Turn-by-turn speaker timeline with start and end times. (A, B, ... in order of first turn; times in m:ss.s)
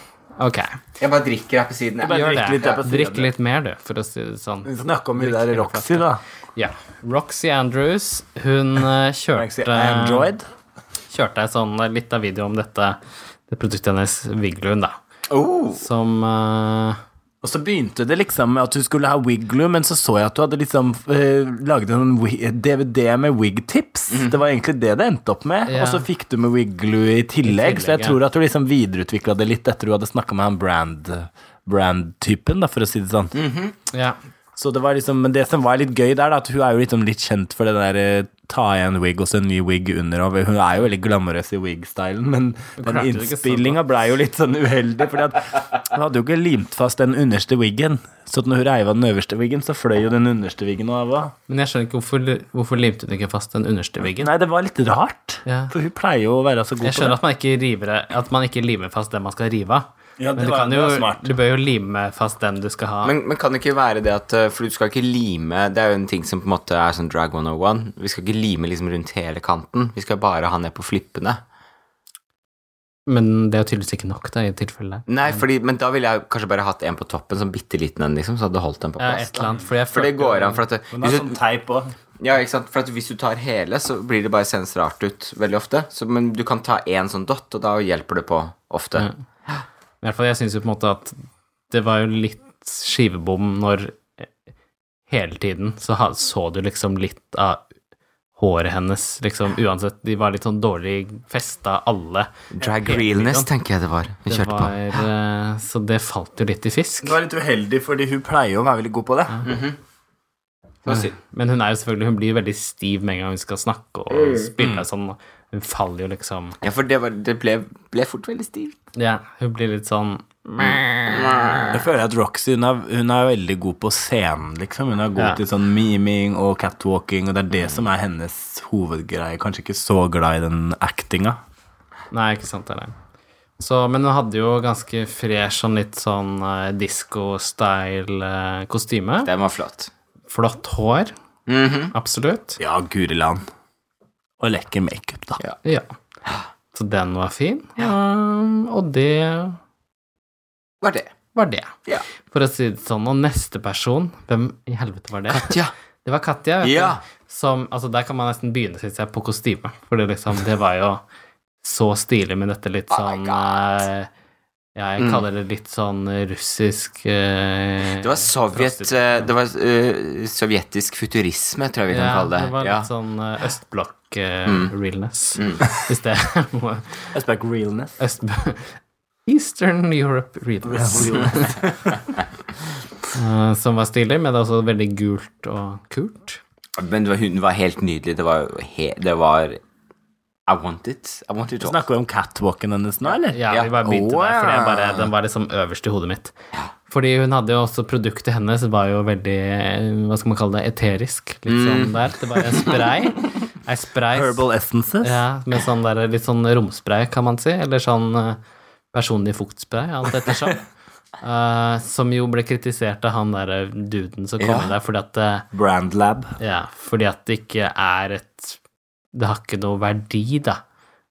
0:00.4-0:00.8 A
0:01.0-0:02.8 B
0:02.0-0:03.3 C
0:02.1-0:10.3 A
0:04.6-0:06.2 C
0:09.4-0:10.5 C
0:11.1-0:15.0 A
0:15.3-0:15.8 B
0:15.8-0:17.0 A
0:17.4-0:33.3 C
0:25.7-0:26.1 A
0:27.4-0:28.2 A
0:33.4-0:33.8 B
0:33.9-0:34.2 A
0:34.6-0:51.3 C
0:42.8-0:43.8 A
0:51.5-0:54.3 A
0:54.2-0:57.2 C
0:55.5-0:55.7 A
0:56.8-1:03.1 A
1:00.2-1:01.3 C
1:03.0-1:11.4 B
1:13.1-1:15.1 A
1:15.1-1:21.4 B
1:19.0-1:20.6 A
1:20.9-1:21.9 C
1:22.2-1:29.1 B
1:30.0-1:31.2 A
1:31.7-1:34.3 A
1:35.1-1:37.7 A
1:38.4-1:43.5 A
1:42.6-1:44.8 B
1:44.3-1:47.2 A
1:47.0-1:49.5 C
1:49.4-1:49.8 B
1:50.9-1:51.2 B
1:50.9-1:56.6 A
1:54.6-1:54.9 C
1:56.6-1:58.7 B
1:59.0-2:01.7 A
2:01.1-2:01.8 B
2:01.7-2:11.4 C
2:12.1-2:13.0 A
2:13.6-2:19.3 A
2:19.3-2:19.9 B
2:20.3-2:21.1 A
2:21.5-2:21.9 B
2:21.9-2:22.6 A
2:22.6-2:23.4 C
2:24.4-2:25.4 C
2:26.7-2:29.6 A
2:30.8-2:31.1 B
2:31.4-2:31.7 A
2:32.2-2:41.0 A
2:35.3-2:35.7 B
2:36.6-2:37.0 B
2:41.6-2:44.1 A
2:42.9-2:43.7 B
2:44.8-2:49.0 A
2:45.0-2:45.2 B
2:48.0-2:52.9 B
2:51.9-2:57.1 A
2:54.5-2:54.7 B
2:55.4-2:55.7 B
2:57.1-2:58.0 C
2:58.0-3:01.8 A
3:00.6-3:01.9 C
3:03.1-3:06.4 A
3:06.8-3:09.6 B
3:10.5-3:11.8 B
3:11.6-3:15.0 C
3:13.3-3:16.3 A
3:16.9-3:24.4 A
3:21.5-3:22.8 B
3:24.1-3:25.2 C
3:25.0-3:28.4 A
3:28.9-3:30.6 A
3:31.2-3:35.5 A
3:34.4-3:34.8 B
3:35.5-3:36.4 C
3:36.4-3:38.6 A
3:39.1-3:40.6 A